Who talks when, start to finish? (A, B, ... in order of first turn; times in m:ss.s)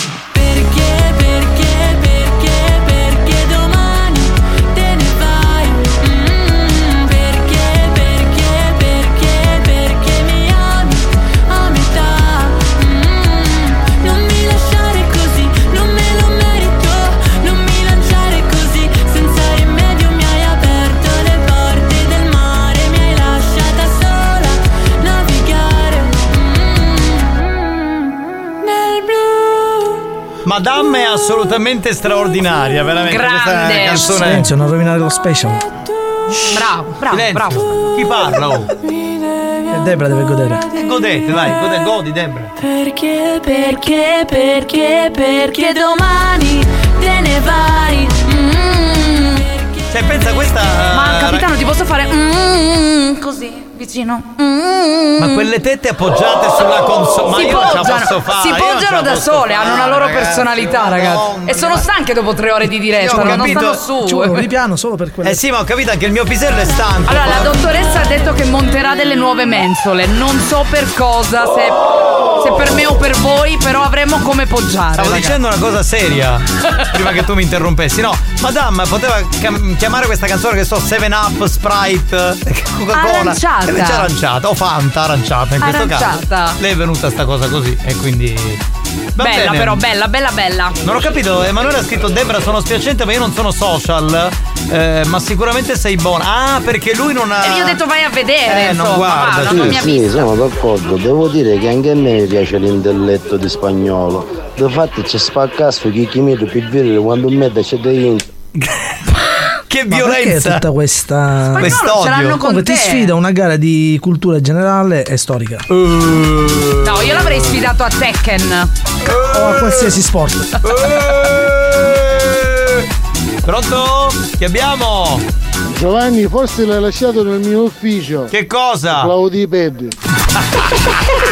0:00.3-0:28.1 A
0:28.7-0:29.0 A
0:30.4-0:34.5 B
0:33.1-0:34.2 C
0:34.1-0:35.6 D
0:36.5-0:37.7 C
0:37.1-0:38.7 B
0:39.7-0:40.6 D
0:40.7-0:42.5 B
0:48.2-0:48.5 A
0:49.2-0:49.9 A
0:49.9-0:51.5 B
0:50.9-0:55.5 C
0:55.2-1:01.9 B
0:57.3-1:04.5 C
1:02.8-1:03.8 B
1:03.1-1:05.4 D
1:05.2-1:07.7 B
1:07.1-1:11.8 C
1:12.4-1:15.4 C
1:15.0-1:28.6 B
1:22.9-1:24.1 C
1:25.6-1:26.6 C
1:29.2-1:29.8 B
1:29.2-1:30.8 C
1:30.8-1:37.8 B
1:37.4-1:40.2 C
1:38.5-1:39.9 B
1:39.5-1:48.2 E
1:49.7-1:50.6 B
1:49.9-1:55.6 D
1:51.6-1:53.1 C
1:51.6-1:52.4 B
1:55.7-1:57.3 B
1:56.8-1:58.7 C
1:59.0-1:59.9 B
1:59.3-2:00.6 D
2:00.6-2:02.9 B
2:03.4-2:05.2 B
2:05.7-2:08.3 F
2:08.3-2:09.1 B
2:08.9-2:09.9 F